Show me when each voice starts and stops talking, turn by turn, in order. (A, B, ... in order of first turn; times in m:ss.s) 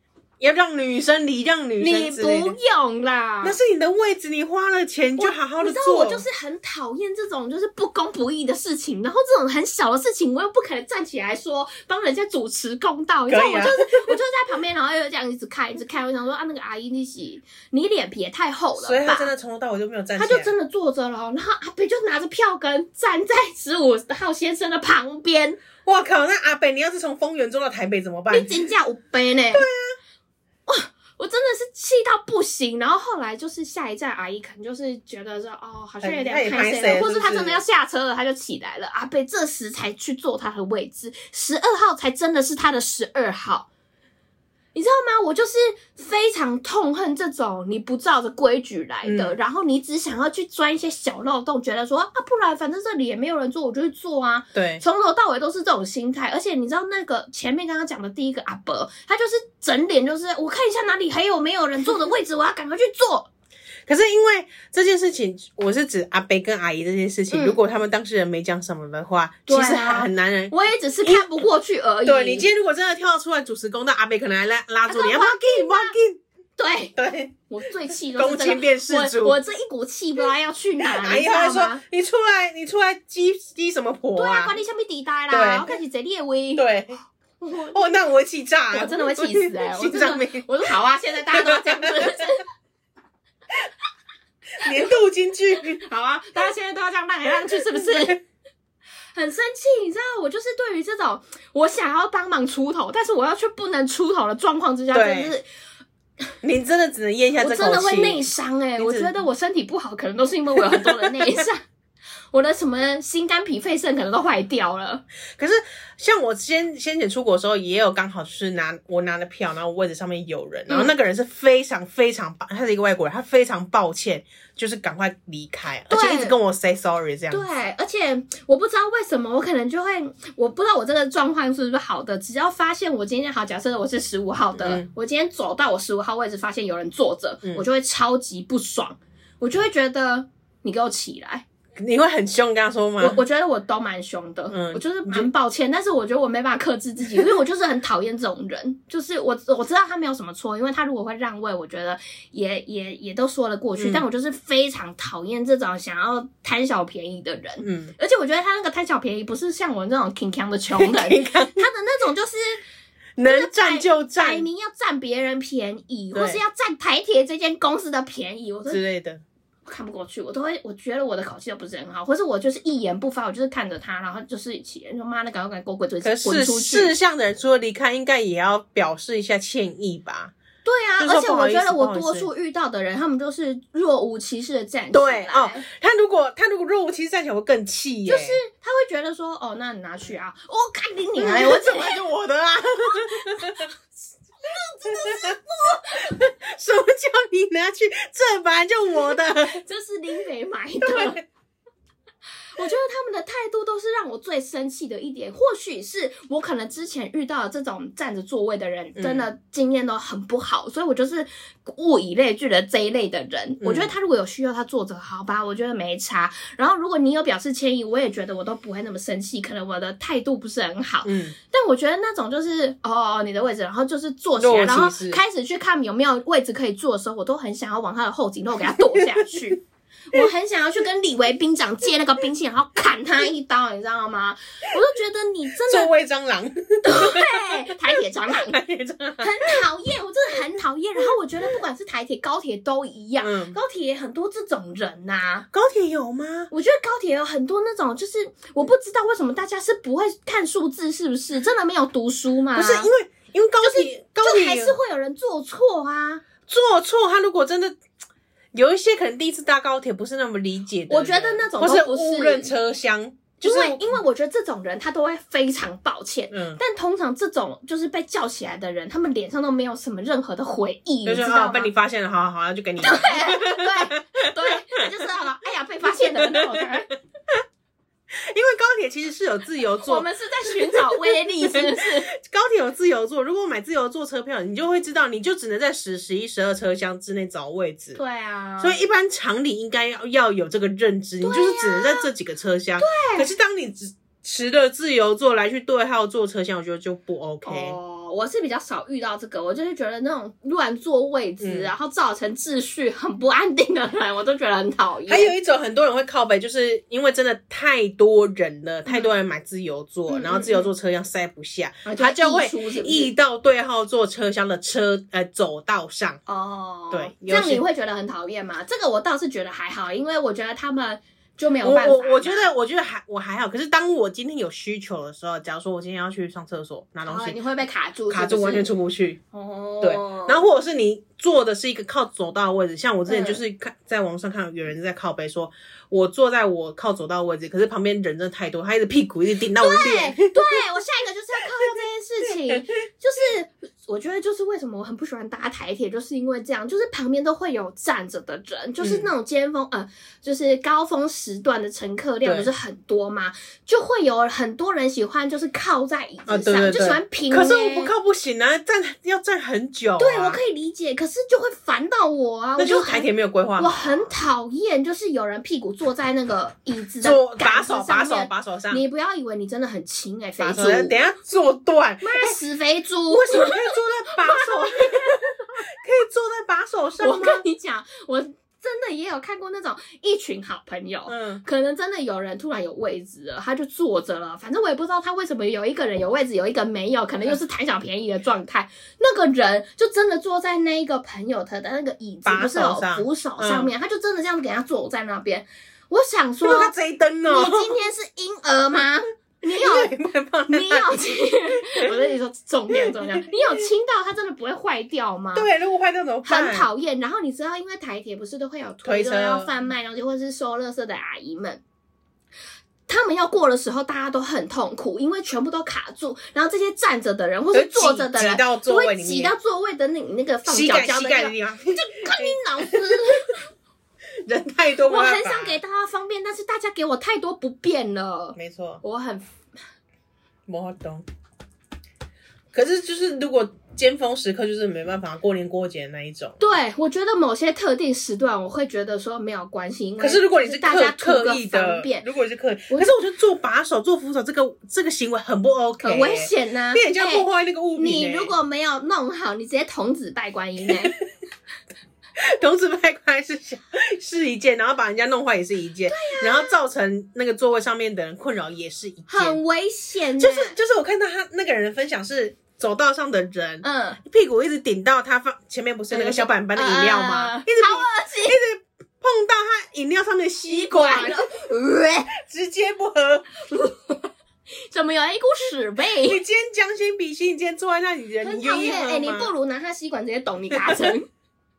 0:00.4-0:02.5 A
0:01.8-0:03.6 B
0:03.4-0:06.2 A
0:05.2-0:19.3 B
0:13.3-0:14.1 A
0:18.8-0:20.5 A
0:20.2-0:25.6 B
0:25.8-0:28.7 A
0:28.3-0:29.6 B
0:29.5-0:29.9 A
0:30.7-0:43.7 B
0:36.0-0:37.6 A
0:44.7-1:03.3 B
0:49.0-0:49.3 A
0:54.5-0:54.8 A
1:03.9-1:11.3 A
1:07.3-1:07.6 B
1:09.5-1:12.5 B
1:12.0-1:16.2 A
1:14.9-1:15.9 B
1:16.6-1:16.9 B
1:16.9-1:17.4 A
1:17.5-1:21.8 B
1:18.1-1:19.4 A
1:20.8-1:24.6 A
1:24.2-1:26.6 B
1:25.3-1:25.8 A
1:26.5-1:27.0 A
1:27.4-1:27.8 B
1:27.6-1:30.5 A
1:28.7-1:32.4 B
1:31.4-1:32.0 A
1:34.6-1:35.8 A
1:35.7-1:38.2 B
1:37.7-1:38.1 A
1:39.1-1:45.4 B
1:44.9-1:45.3 A
1:46.4-1:48.2 A
1:47.4-1:51.6 B
1:48.8-1:49.1 A
1:50.7-1:51.3 A
1:52.3-1:55.0 B
1:55.4-2:07.4 A
2:05.9-2:06.4 B
2:07.3-2:21.4 B
2:14.5-2:14.8 A
2:21.8-2:23.2 A
2:23.0-2:42.6 B
2:24.5-2:25.3 A
2:33.8-2:34.0 A
2:37.6-2:37.9 A
2:40.8-2:41.6 A
2:43.2-2:44.4 A
2:43.2-2:48.8 B
2:46.1-2:46.4 A
2:48.7-2:49.2 A
2:49.6-2:56.9 B
2:56.0-3:00.3 A
3:00.6-3:05.6 B
3:01.0-3:02.3 A
3:04.9-3:08.4 A
3:08.0-3:12.0 B
3:11.2-3:13.7 A
3:13.0-3:13.7 B
3:14.4-3:16.3 B
3:14.8-3:15.4 A
3:16.0-3:19.6 A
3:19.3-3:21.2 B
3:20.8-3:21.2 A
3:22.5-3:55.9 B
3:29.0-3:29.3 A
3:33.6-3:33.9 A
3:41.0-3:41.4 A
3:44.4-3:45.2 A
3:55.7-3:59.6 A
3:56.8-3:58.6 B
3:59.2-4:05.5 B
4:03.2-4:03.6 A
4:05.5-4:06.5 A
4:06.5-4:12.9 B
4:12.5-4:14.7 A
4:13.6-4:16.2 B
4:16.5-4:17.8 A
4:18.5-4:24.0 A
4:20.9-4:22.5 B
4:23.4-4:31.7 B
4:26.3-4:26.6 A
4:31.0-4:34.8 A
4:32.8-4:36.9 B
4:36.0-4:36.7 A
4:38.1-4:48.0 A
4:39.8-4:42.1 B
4:47.9-4:48.8 B
4:48.6-4:57.8 A
4:51.2-4:52.1 B
4:52.8-4:53.3 B
4:57.4-5:05.3 B
5:01.4-5:01.7 A
5:05.1-5:16.2 A
5:10.1-5:10.7 B
5:11.8-5:13.1 B
5:16.3-5:22.5 B
5:16.9-5:17.6 A
5:21.6-5:27.4 A
5:27.0-5:28.7 B
5:28.1-5:29.2 A
5:29.3-5:30.4 B
5:29.8-5:40.3 A
5:33.1-5:33.4 B
5:39.5-5:57.9 B
5:48.8-5:49.1 A
5:52.2-5:52.5 A
5:56.3-6:00.4 A
6:00.0-6:10.9 B
6:02.6-6:04.1 A
6:07.0-6:08.8 A
6:10.4-6:12.4 A
6:12.0-6:15.3 B
6:13.1-6:17.4 A
6:17.0-6:36.7 B
6:21.1-6:21.4 A
6:32.2-6:33.7 A
6:36.4-6:37.7 A
6:37.3-6:39.9 B
6:39.5-6:41.2 A
6:40.5-6:45.5 B
6:42.7-6:43.5 A
6:45.3-6:46.7 A
6:46.2-6:51.6 B
6:48.8-6:49.5 A
6:52.9-7:03.4 B
6:57.5-6:59.3 A
7:00.4-7:03.0 A
7:04.2-7:05.6 A
7:04.8-7:09.3 B
7:08.4-7:08.8 A
7:10.5-7:11.0 A
7:12.5-7:16.4 A
7:16.4-7:22.0 B
7:20.0-7:28.3 A
7:22.7-7:22.9 B
7:25.8-7:31.0 B
7:32.2-7:39.4 A
7:35.9-7:36.6 B
7:39.1-7:40.6 B
7:40.2-7:51.2 A
7:43.6-7:44.0 B
7:45.9-7:48.4 B
7:50.4-7:52.1 B
7:52.1-7:53.3 A
7:53.5-7:54.1 B
7:54.7-7:56.2 B
7:56.0-7:59.3 A
7:58.2-8:01.0 B
8:00.5-8:00.9 A